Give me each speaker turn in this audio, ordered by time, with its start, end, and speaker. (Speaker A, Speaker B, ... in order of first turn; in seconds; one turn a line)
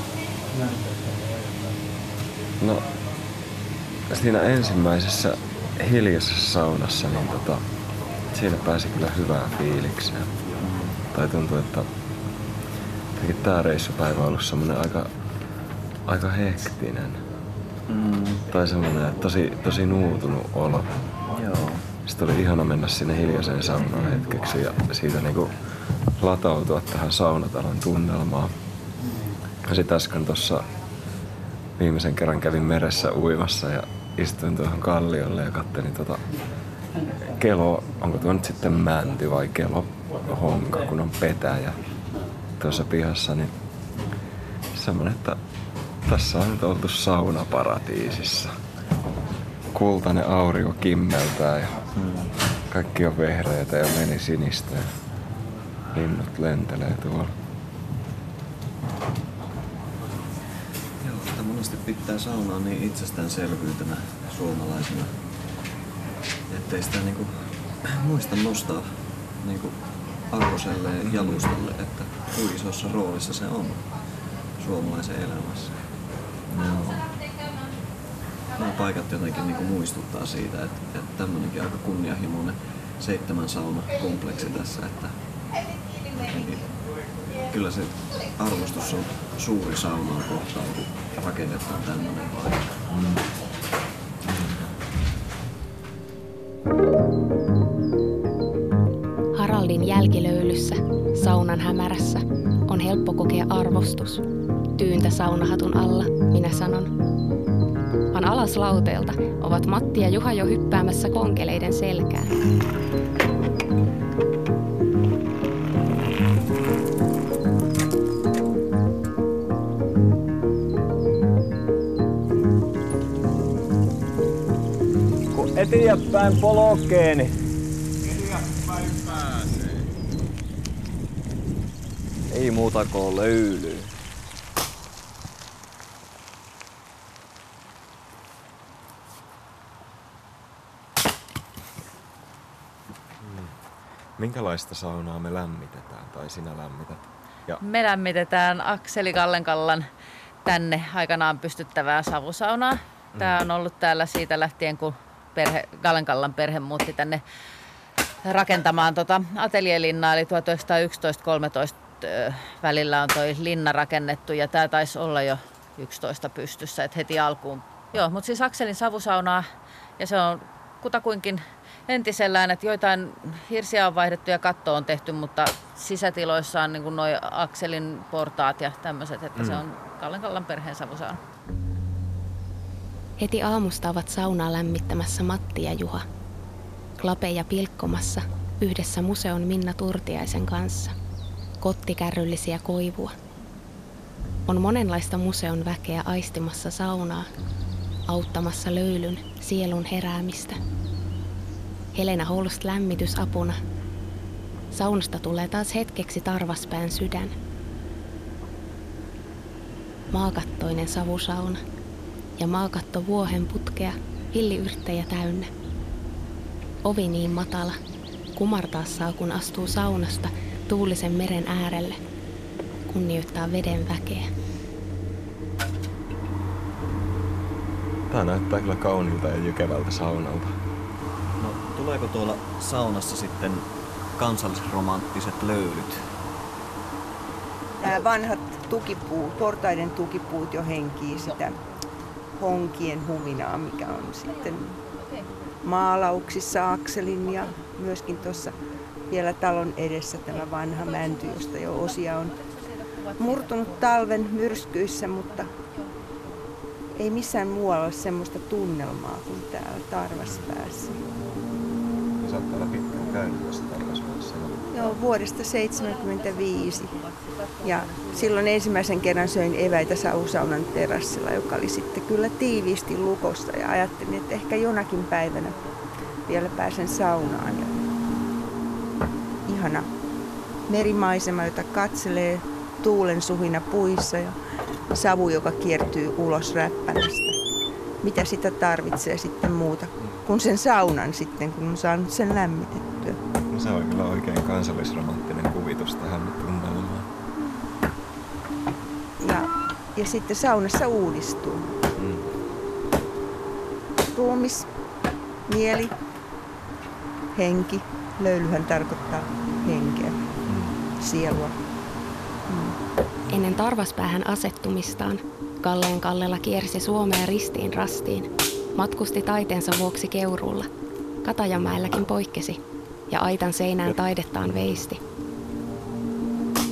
Speaker A: 4.1-7.6
Speaker A: 8.3-10.3
Speaker B: 10.6-10.9
Speaker A: 11.0-11.9
Speaker A: 13.2-15.1
Speaker A: 16.1-17.2
Speaker B: 17.9-18.4
Speaker A: 18.5-20.9
Speaker B: 21.3-21.9
Speaker A: 22.1-25.6
Speaker A: 26.2-28.5
Speaker A: 29.6-30.7
Speaker A: 31.8-36.2
Speaker A: 37.2-41.8
Speaker A: 42.6-43.5
Speaker A: 44.7-45.4
Speaker A: 46.1-48.6
Speaker A: 49.7-51.8
Speaker B: 51.9-52.3
Speaker A: 52.7-54.9
Speaker A: 55.9-57.3
Speaker B: 61.0-65.2
Speaker B: 66.5-73.9
Speaker A: 71.1-71.5
Speaker B: 74.6-75.8
Speaker B: 76.5-77.2
Speaker B: 78.5-85.2
Speaker B: 86.1-86.7
Speaker B: 87.4-92.8
Speaker A: 92.9-93.2
Speaker C: 99.3-104.2
Speaker C: 104.8-106.9
Speaker C: 108.1-112.4
Speaker D: 125.3-127.3
Speaker B: 132.3-133.9
Speaker A: 143.2-143.6
Speaker A: 144.2-147.6
Speaker E: 147.6-149.9
Speaker E: 150.4-157.2
Speaker A: 153.1-153.4
Speaker E: 158.2-181.2
Speaker C: 183.2-186.1
Speaker C: 187.0-190.9
Speaker C: 191.6-193.1
Speaker C: 194.5-197.3
Speaker C: 198.1-200.6
Speaker C: 201.9-203.6
Speaker C: 204.7-207.3
Speaker C: 210.1-211.6
Speaker C: 212.4-215.5
Speaker C: 216.8-217.8
Speaker C: 218.3-222.0
Speaker C: 222.9-224.3
Speaker A: 228.1-230.6
Speaker B: 231.4-236.1
Speaker F: 237.8-241.6
Speaker F: 242.4-244.8
Speaker F: 245.6-248.6
Speaker F: 249.1-252.4
Speaker F: 253.2-255.5
Speaker F: 256.9-261.0
Speaker A: 262.2-265.0
Speaker F: 264.7-275.6
Speaker F: 276.3-277.8
Speaker F: 279.5-279.9
Speaker F: 280.7-284.4
Speaker F: 284.9-287.4
Speaker F: 288.0-293.2
Speaker A: 293.5-297.1
Speaker F: 299.2-301.7
Speaker A: 302.0-302.4
Speaker F: 304.1-304.7
Speaker F: 305.5-305.9
Speaker F: 307.4-310.2
Speaker A: 310.5-310.8
Speaker F: 311.0-311.6
Speaker F: 312.5-312.8
Speaker C: 313.3-320.7
Speaker C: 321.2-322.6
Speaker C: 323.1-325.0